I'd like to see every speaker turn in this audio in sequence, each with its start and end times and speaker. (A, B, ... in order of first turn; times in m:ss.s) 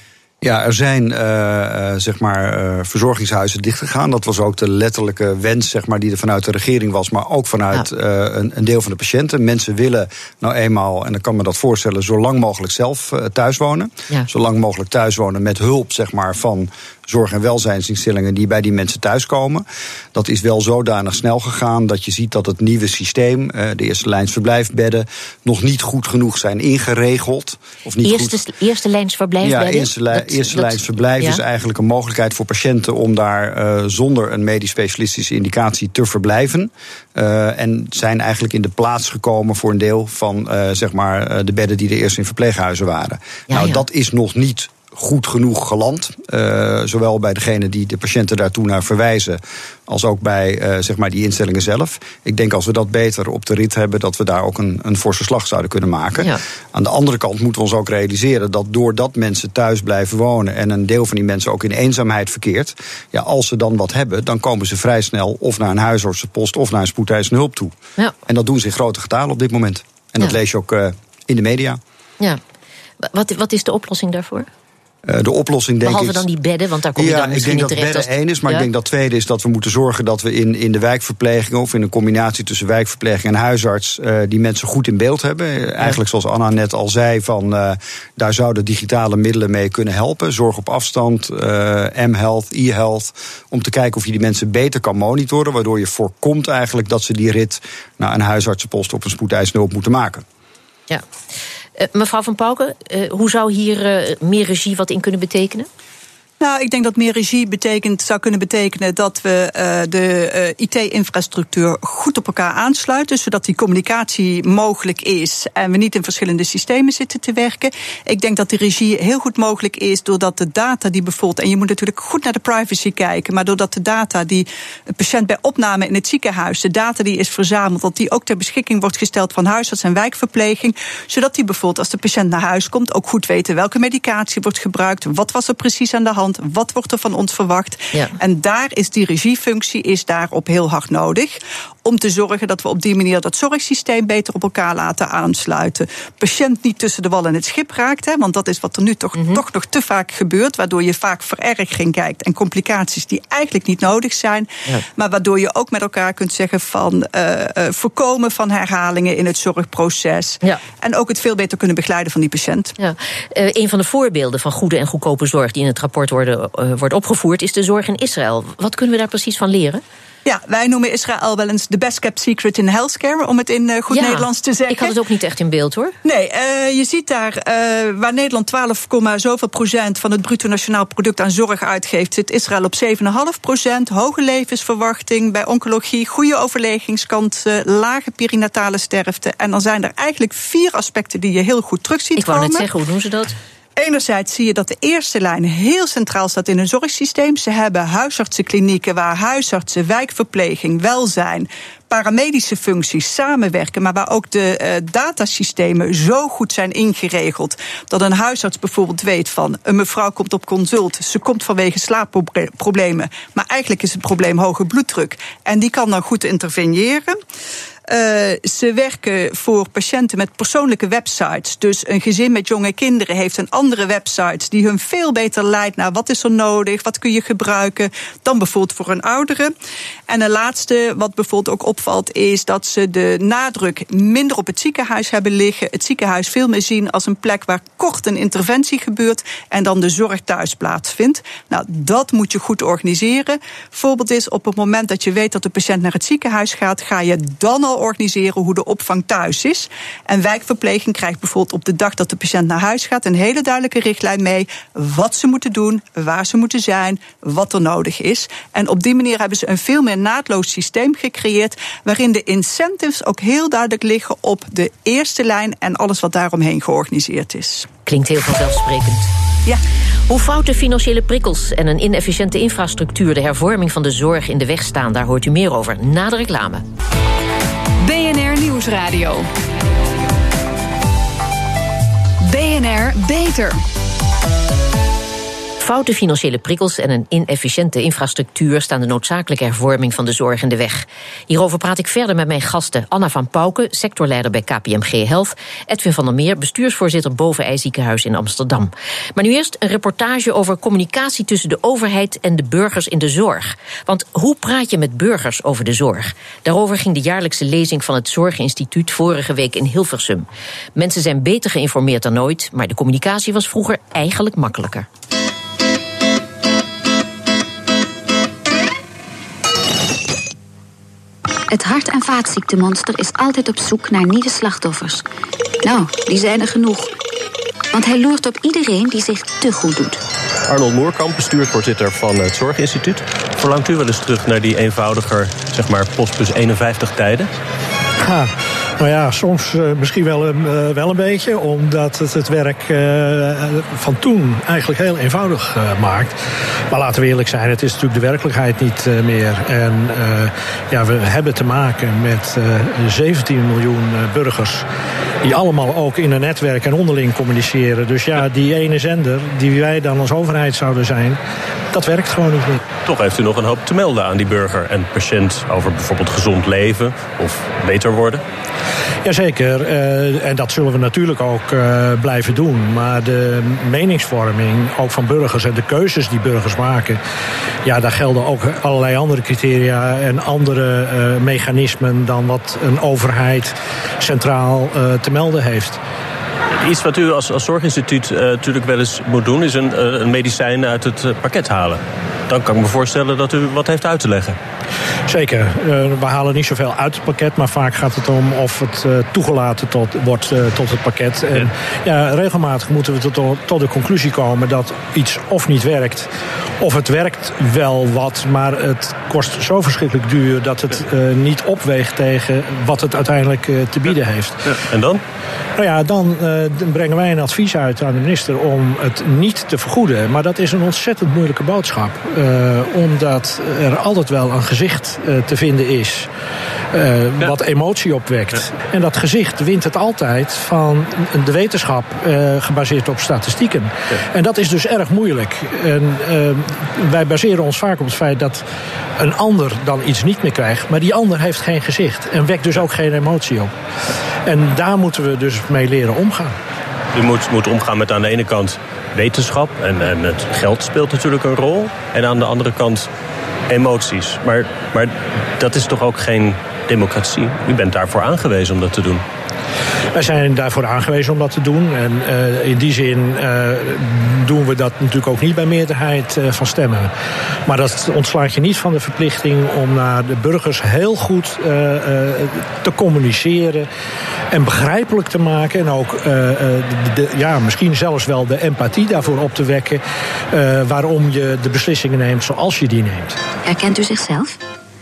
0:00.4-0:28.4 A
0:28.0-0:31.4 B
0:29.4-1:11.8 A
0:43.5-0:43.8 B
1:13.0-1:14.5 B
1:15.1-1:16.2 A
1:15.8-1:18.7 B
1:17.0-1:40.2 A
1:41.8-1:45.7 B
1:46.4-2:42.7 C
2:29.2-2:29.4 B
2:42.8-2:49.8 B
2:50.2-2:55.0 C
2:53.9-2:56.0 B
2:56.0-3:12.7 C
3:12.2-3:13.4 B
3:13.8-3:37.2 C
3:37.9-3:49.5 C
3:50.1-4:27.7 C
4:27.9-4:29.1 B
4:30.1-4:36.6 B
4:37.8-4:39.3 D
4:42.2-4:43.6 D
4:45.6-5:14.9 B
5:21.5-5:25.0 E
5:25.6-5:26.9 E
5:27.7-5:30.0 E
5:30.5-5:37.3 F
5:38.0-5:46.2 G
5:46.7-5:54.6 G
5:55.2-6:01.2 G
6:01.7-6:02.6 G
6:02.8-6:08.2 F
6:09.0-6:17.0 G
6:17.6-6:25.8 G
6:26.6-6:34.4 F
6:35.1-6:46.1 G
6:46.6-6:54.6 G
6:54.7-6:55.0 F
6:55.6-7:06.1 G
7:06.7-7:18.4 G
7:19.0-7:23.5 G
7:24.2-7:26.4 G
7:26.9-7:32.9 F
7:33.5-7:39.0 F
7:39.9-7:46.9 G
7:47.5-7:53.7 G
7:54.3-8:03.2 G
8:03.4-8:04.4 E